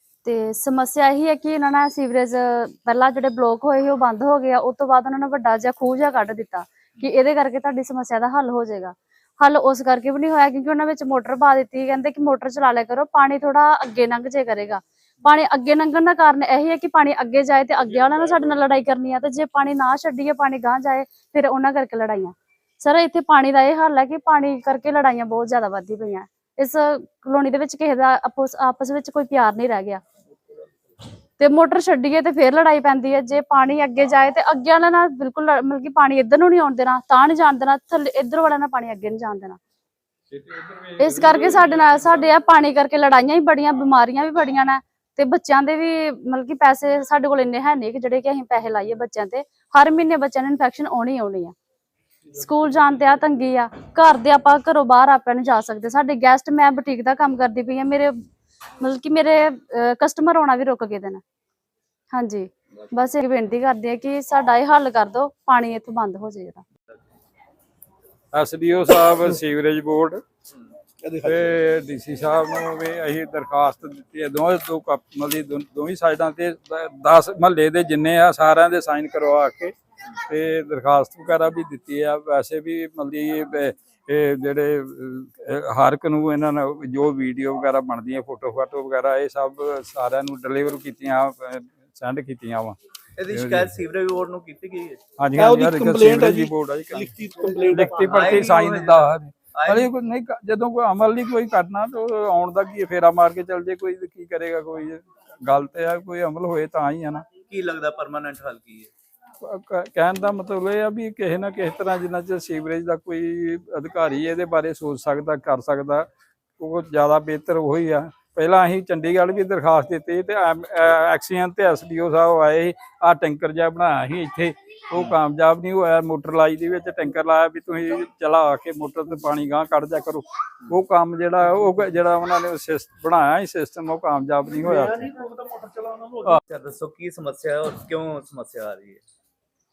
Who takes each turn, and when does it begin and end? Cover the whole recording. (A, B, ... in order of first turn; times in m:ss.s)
0:00.2-0:30.0 A
0:31.4-0:39.6 A
0:40.3-0:42.3 B
0:41.0-0:51.5 A
0:52.3-0:58.2 A
0:58.8-1:01.2 A
1:02.1-1:06.6 A
1:08.3-1:10.2 B
1:11.0-1:11.6 C
1:11.2-1:32.8 B
1:33.2-1:35.0 D
1:33.3-1:33.7 B
1:35.2-1:37.1 B
1:35.4-1:38.4 C
1:37.7-1:47.2 B
1:38.1-1:39.9 D
1:47.5-1:48.9 D
1:49.4-1:56.1 B
1:56.6-2:15.0 B
2:14.6-2:16.4 C
2:16.4-2:19.0 D